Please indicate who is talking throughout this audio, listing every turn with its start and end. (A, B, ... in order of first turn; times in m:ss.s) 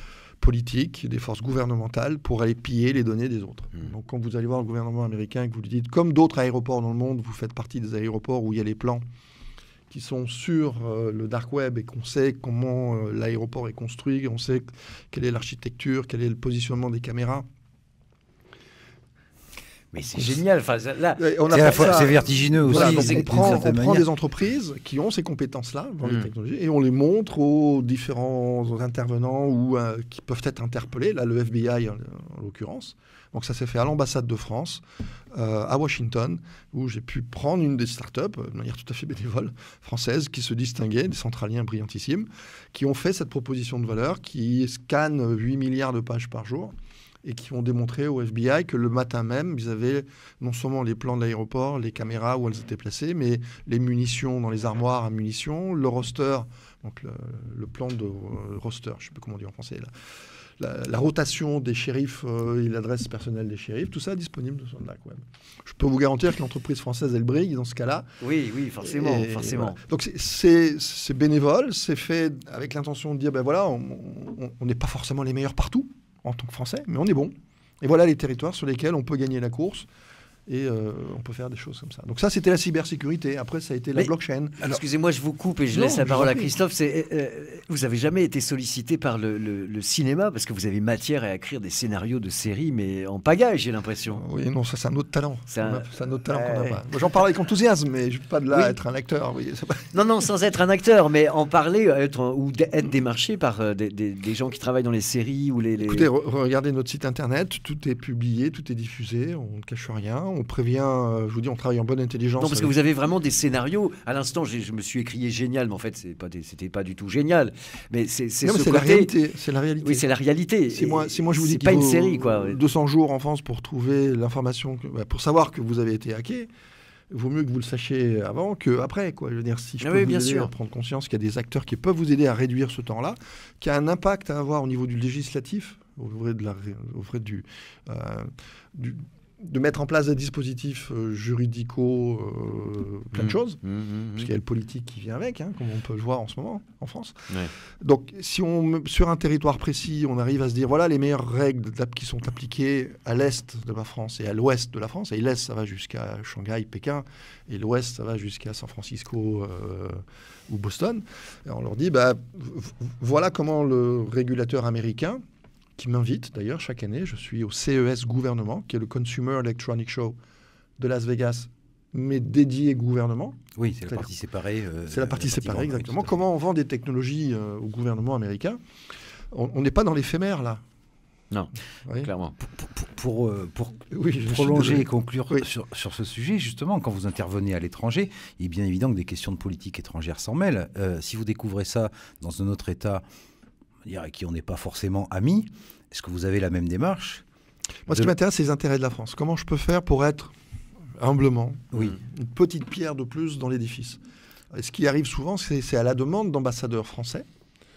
0:00.4-0:09.0 A
0:09.9-0:17.4 A
0:19.9-0:23.6 B
0:20.1-0:20.4 A
0:21.2-0:34.8 A
0:21.5-0:24.1 C
0:35.3-0:59.9 A
1:00.6-1:08.1 A
1:08.2-1:09.8 B
1:08.8-1:19.9 A
1:20.5-1:24.6 A
1:23.9-1:34.2 B
1:25.7-1:26.5 A
1:34.1-1:40.0 A
1:35.5-1:36.8 B
1:38.5-1:38.8 B
1:39.9-1:46.1 B
1:45.8-1:52.8 A
1:52.4-1:59.1 B
1:58.4-2:00.1 A
1:59.8-2:02.6 B
2:00.7-2:06.5 A
2:07.1-2:23.6 A
2:09.8-2:10.5 B
2:23.6-2:24.3 B
2:24.2-2:45.2 A
2:45.8-2:50.2 A
2:50.8-2:54.1 A
2:53.6-2:56.2 C
2:54.9-2:58.6 A
2:59.3-3:00.6 A
3:01.3-3:02.4 B
3:02.4-3:13.0 C
3:03.9-3:05.5 A
3:13.8-3:17.2 C
3:17.9-3:20.3 A
3:21.0-3:24.0 A
3:24.5-3:27.2 A